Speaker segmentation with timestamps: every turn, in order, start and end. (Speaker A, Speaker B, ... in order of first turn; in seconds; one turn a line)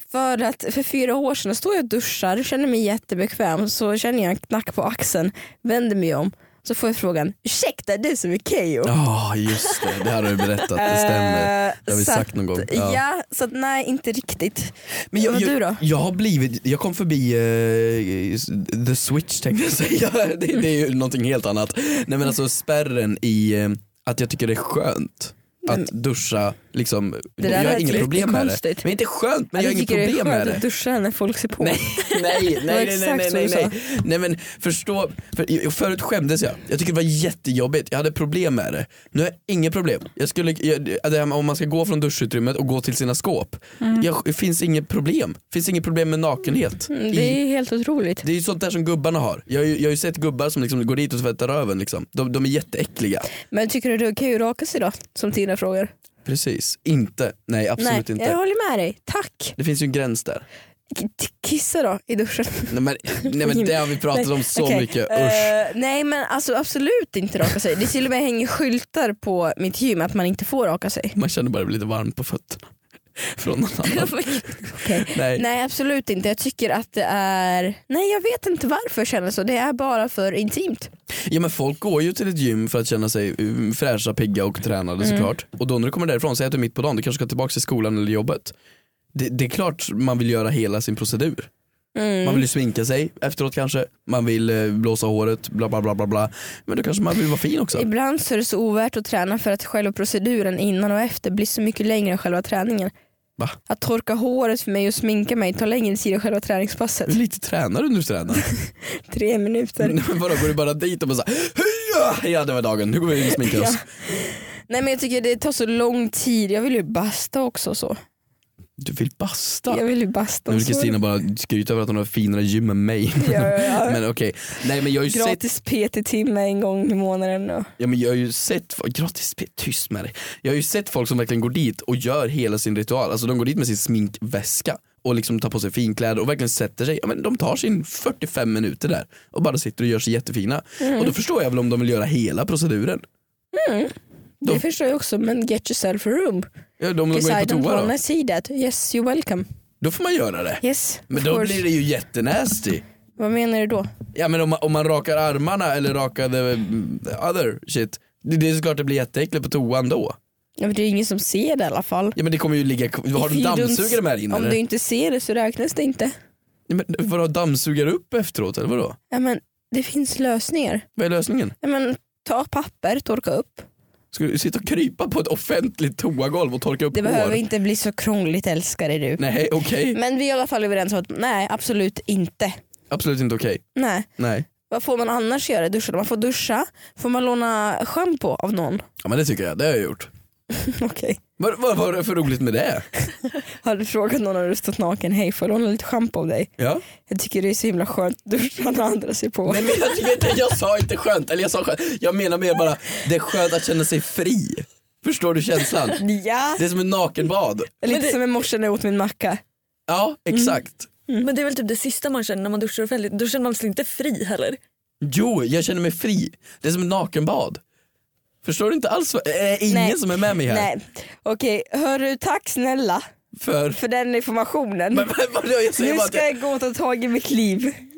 Speaker A: 0.1-8.9
Speaker B: 8.8-13.0
Speaker A: 10.7-15.8
Speaker B: 15.1-30.6
Speaker A: 27.4-28.9
Speaker A: 29.6-33.7
Speaker B: 31.6-47.4
Speaker A: 46.9-48.2
Speaker B: 48.2-53.3
Speaker A: 53.5-55.9
Speaker B: 56.2-58.4
Speaker A: 57.8-59.6
Speaker B: 59.6-60.5
Speaker A: 60.9-71.2
Speaker B: 62.7-65.6
Speaker B: 71.2-75.5
Speaker C: 73.9-74.6
Speaker A: 74.7-80.9
Speaker B: 81.3-88.5
Speaker A: 85.0-85.3
Speaker B: 89.1-91.5
Speaker A: 92.0-92.4
Speaker B: 92.2-97.9
Speaker A: 97.7-102.9
Speaker A: 103.7-107.2
Speaker B: 107.1-108.5
Speaker A: 108.6-110.0
Speaker B: 109.8-113.8
Speaker A: 113.3-118.0
Speaker B: 118.8-119.8
Speaker A: 119.7-121.0
Speaker B: 120.5-125.4
Speaker A: 123.2-124.0
Speaker A: 125.1-127.7
Speaker B: 127.8-143.1
Speaker A: 140.8-141.1
Speaker A: 143.5-146.5
Speaker B: 146.8-147.9
Speaker A: 147.1-149.5
Speaker B: 149.8-152.8
Speaker A: 150.6-151.7
Speaker A: 153.2-153.9
Speaker B: 154.1-160.2
Speaker A: 160.6-162.2
Speaker B: 162.2-164.6
Speaker A: 163.1-166.1
Speaker B: 166.7-169.0
Speaker A: 169.1-170.8
Speaker B: 171.0-171.6
Speaker A: 171.6-173.7
Speaker B: 174.1-177.4
Speaker A: 176.9-179.2
Speaker B: 179.2-180.0
Speaker A: 179.9-182.6
Speaker B: 182.9-183.7
Speaker A: 183.8-184.1
Speaker B: 184.2-184.5
Speaker A: 184.7-188.8
Speaker B: 189.0-190.1
Speaker A: 190.5-191.2
Speaker B: 191.4-192.9
Speaker A: 193.6-196.5
Speaker B: 196.6-196.8
Speaker A: 197.1-199.7
Speaker B: 199.5-206.0
Speaker A: 206.0-206.6
Speaker B: 206.6-207.8
Speaker A: 207.8-209.4
Speaker B: 209.9-210.9
Speaker C: 211.2-214.6
Speaker B: 215.0-217.6
Speaker B: 218.4-220.7
Speaker A: 219.7-223.1
Speaker B: 223.3-223.8
Speaker A: 223.7-225.1
Speaker B: 224.9-226.3
Speaker A: 225.8-227.8